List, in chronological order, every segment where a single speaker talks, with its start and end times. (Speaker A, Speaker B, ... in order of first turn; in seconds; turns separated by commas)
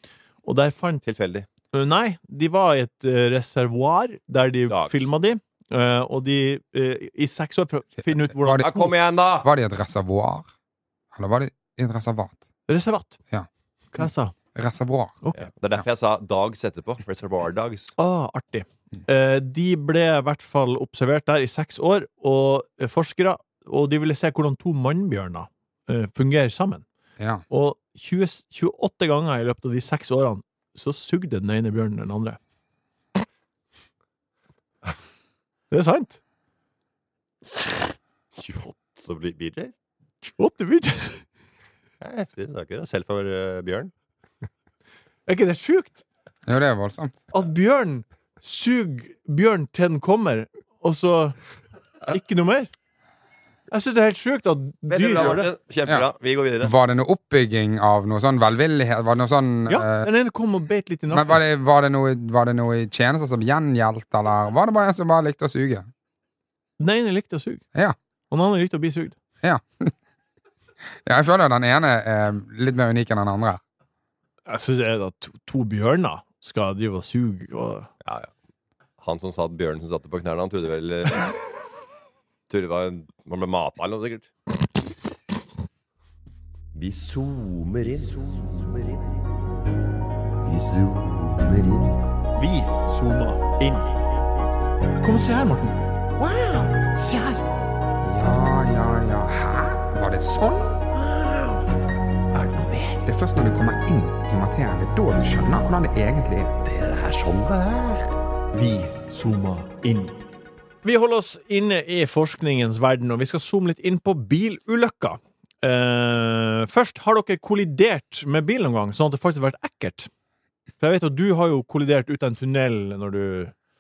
Speaker A: 0.4-1.0, Speaker B: 1.0-1.5, Speaker A: 1.7-8.9, Speaker B: 4.7-5.1, Speaker C: 8.1-8.7, Speaker B: 8.6-9.5, Speaker C: 9.4-10.5, Speaker C: 11.1-12.4, Speaker A: 12.7-13.2, Speaker A: 13.9-14.3, Speaker C: 14.6-15.2, Speaker B: 15.3-17.9, Speaker A: 18.0-26.9, Speaker A: 27.5-32.4, Speaker A: 35.7-36.2, Speaker B: 38.3-39.7, Speaker A: 40.2-41.2, Speaker B: 42.0-43.9, Speaker A: 45.3-46.0, Speaker C: 46.5-47.2, Speaker A: 47.3-51.4, Speaker A: 52.1-52.7, Speaker A: 53.7-55.5, Speaker B: 54.9-56.7, Speaker C: 56.6-60.1, Speaker A: 59.7-61.4, Speaker C: 61.1-65.9, Speaker A: 66.8-67.6, Speaker A: 68.3-69.2, Speaker C: 69.4-69.9, Speaker C: 71.1-73.6, Speaker A: 74.5-77.9, Speaker B: 78.0-78.3, Speaker B: 79.0-81.4, Speaker B: 82.5-84.3, Speaker B: 86.7-89.1, Speaker B: 90.5-92.0, Speaker A: 92.4-94.1, Speaker A: 95.0-97.4, Speaker C: 98.0-100.8, Speaker C: 103.0-106.7, Speaker B: 106.7-107.8, Speaker A: 108.5-110.2, Speaker A: 110.8-120.1, Speaker A: 120.8-123.5